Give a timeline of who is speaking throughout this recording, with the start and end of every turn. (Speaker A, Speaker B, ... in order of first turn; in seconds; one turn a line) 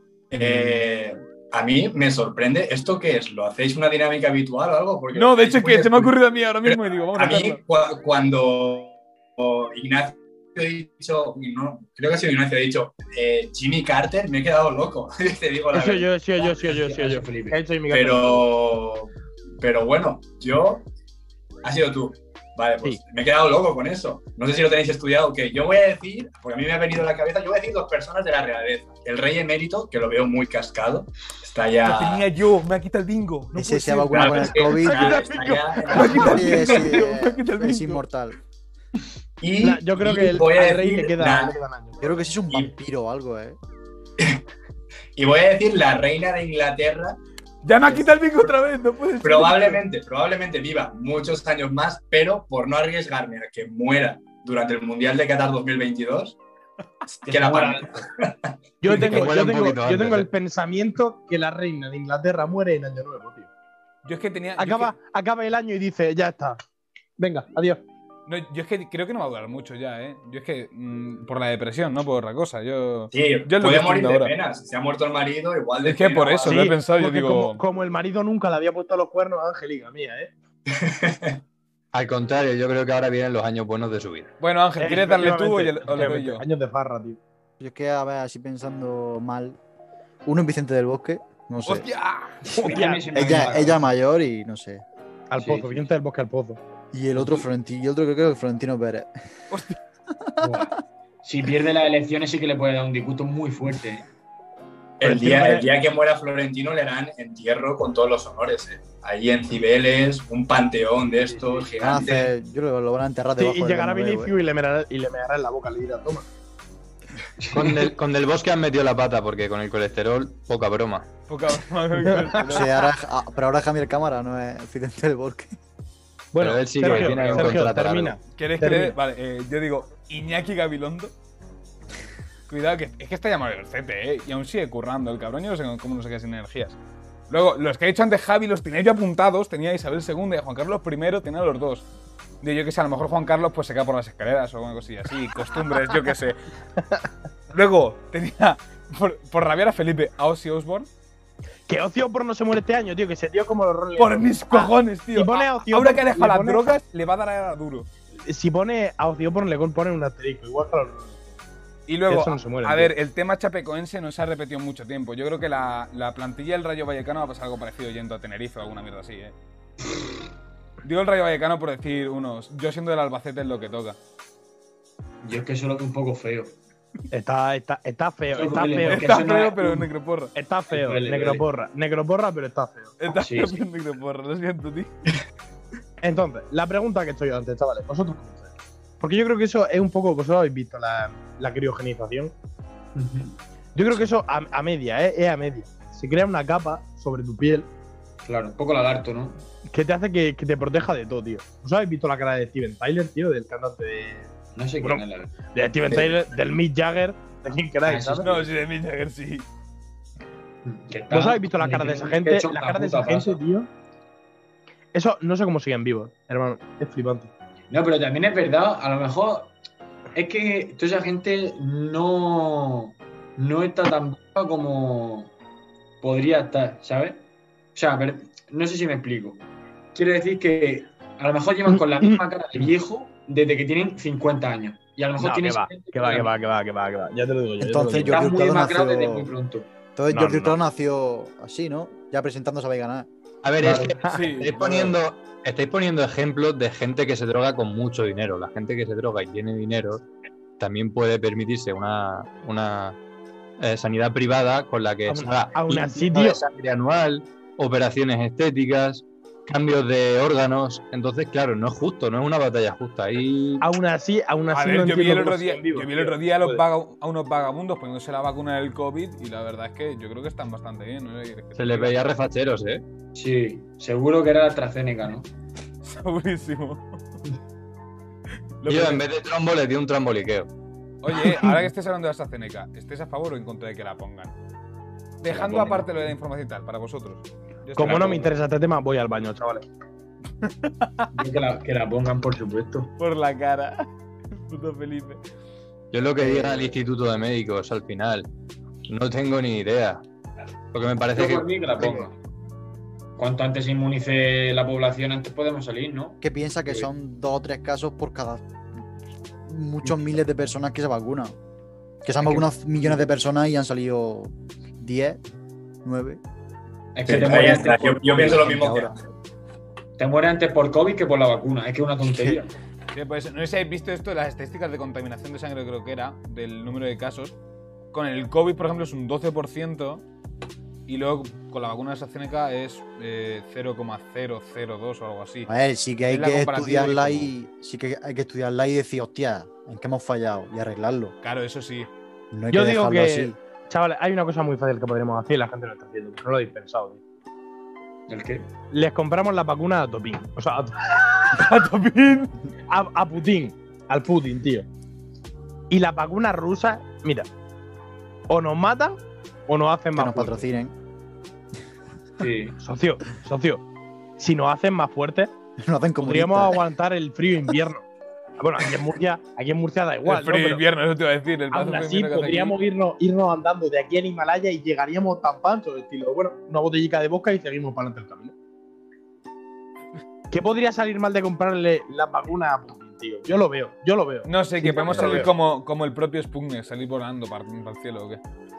Speaker A: 0.3-6.1
Speaker B: 5.1-7.6
Speaker A: 6.7-16.1
Speaker C: 15.7-18.4
Speaker D: 16.4-17.6
Speaker A: 17.9-20.8
Speaker A: 21.6-32.2
Speaker B: 31.8-38.0
Speaker E: 33.5-35.3
Speaker A: 34.1-36.7
Speaker E: 35.8-38.4
Speaker A: 39.4-41.6
Speaker C: 39.6-42.2
Speaker E: 42.0-43.6
Speaker A: 45.1-47.2
Speaker B: 47.6-49.8
Speaker A: 49.2-56.4
Speaker D: 57.2-58.0
Speaker A: 57.2-58.5
Speaker C: 58.8-63.5
Speaker F: 58.9-60.3
Speaker B: 64.0-64.9
Speaker C: 64.6-66.6
Speaker C: 67.2-67.8
Speaker B: 68.3-74.3
Speaker A: 73.1-76.7
Speaker B: 75.8-77.6
Speaker C: 76.4-80.3
Speaker A: 80.7-81.4
Speaker F: 81.9-84.3
Speaker B: 84.4-86.4
Speaker C: 84.8-87.2
Speaker E: 87.6-89.6
Speaker E: 90.2-91.9
Speaker B: 91.6-92.5
Speaker D: 92.4-93.9
Speaker C: 92.5-93.5
Speaker E: 93.1-94.8
Speaker C: 95.3-96.6
Speaker D: 95.4-95.8
Speaker E: 96.9-99.1
Speaker B: 99.5-99.8
Speaker E: 100.2-100.7
Speaker D: 100.4-104.0
Speaker A: 105.0-112.3
Speaker C: 105.0-105.7
Speaker D: 111.3-111.7
Speaker E: 111.8-114.3
Speaker C: 113.4-116.3
Speaker D: 117.4-117.9
Speaker F: 117.5-121.1
Speaker B: 121.3-122.7
Speaker C: 122.1-122.7
Speaker E: 122.4-125.5
Speaker C: 126.3-128.9
Speaker F: 126.4-128.2
Speaker B: 126.9-127.6
Speaker B: 128.3-131.1
Speaker B: 132.5-136.8
Speaker B: 137.3-141.9
Speaker B: 142.4-146.4
Speaker B: 147.5-150.9
Speaker C: 151.7-156.7
Speaker B: 154.0-157.9
Speaker C: 158.2-161.3
Speaker B: 161.9-169.3
Speaker C: 162.1-162.9
Speaker B: 170.8-174.0
Speaker D: 175.2-176.6
Speaker C: 177.1-179.2
Speaker D: 178.3-179.9
Speaker B: 178.9-180.3
Speaker C: 180.3-183.0
Speaker D: 180.7-181.4
Speaker B: 183.0-184.9
Speaker D: 183.2-183.6
Speaker C: 186.0-192.3
Speaker D: 192.9-193.4
Speaker C: 193.7-197.7
Speaker D: 198.2-199.4
Speaker C: 199.7-204.3
Speaker D: 204.5-205.3
Speaker C: 204.8-208.4
Speaker D: 207.8-208.4
Speaker B: 208.2-209.4
Speaker D: 210.6-213.4
Speaker C: 211.1-213.7
Speaker C: 214.9-217.3
Speaker D: 217.7-219.5
Speaker D: 220.1-225.3
Speaker D: 226.0-236.3
Speaker C: 231.7-232.2
Speaker C: 235.2-238.2
Speaker E: 237.6-239.3
Speaker D: 238.0-239.7
Speaker E: 239.9-243.1
Speaker C: 240.1-240.6
Speaker F: 243.4-250.1
Speaker D: 243.6-243.9
Speaker C: 243.8-244.1
Speaker B: 244.0-244.6
Speaker F: 250.6-253.0
Speaker F: 253.6-263.6
Speaker C: 255.1-256.4
Speaker C: 263.6-266.6
Speaker B: 264.5-271.9
Speaker F: 271.6-272.8
Speaker D: 273.1-275.3
Speaker B: 275.8-276.8
Speaker B: 278.6-279.0
Speaker F: 278.6-280.5
Speaker B: 281.0-284.3
Speaker C: 281.2-281.6
Speaker B: 285.2-288.4
Speaker D: 285.3-286.1
Speaker C: 287.8-289.6
Speaker B: 290.4-291.1
Speaker D: 291.1-292.9
Speaker B: 293.0-293.9
Speaker B: 294.4-295.2
Speaker F: 295.9-298.3
Speaker F: 298.9-300.0
Speaker F: 300.7-302.1
Speaker D: 301.1-302.1
Speaker D: 303.2-306.9
Speaker E: 306.2-308.5
Speaker E: 309.4-311.3
Speaker E: 312.0-315.2
Speaker D: 312.2-313.0
Speaker E: 315.8-316.2
Speaker D: 316.9-318.6
Speaker A: 317.1-319.0
Speaker E: 317.1-318.9
Speaker D: 320.0-322.5
Speaker B: 322.9-327.4
Speaker B: 327.9-330.0
Speaker B: 330.9-335.5
Speaker E: 335.5-341.1
Speaker B: 336.1-337.3
Speaker B: 341.2-341.9
Speaker E: 342.3-343.4
Speaker C: 342.5-347.0
Speaker D: 348.1-348.5
Speaker C: 348.7-351.5
Speaker B: 351.3-352.3
Speaker C: 352.7-354.7
Speaker C: 355.7-357.3
Speaker C: 358.3-360.4
Speaker E: 359.9-360.7
Speaker D: 362.2-362.6
Speaker C: 362.6-363.6
Speaker C: 364.2-365.3
Speaker E: 365.6-366.6
Speaker C: 366.0-367.9
Speaker C: 368.4-370.6
Speaker B: 370.0-372.5
Speaker C: 371.5-378.3
Speaker C: 380.3-385.3
Speaker B: 384.2-388.2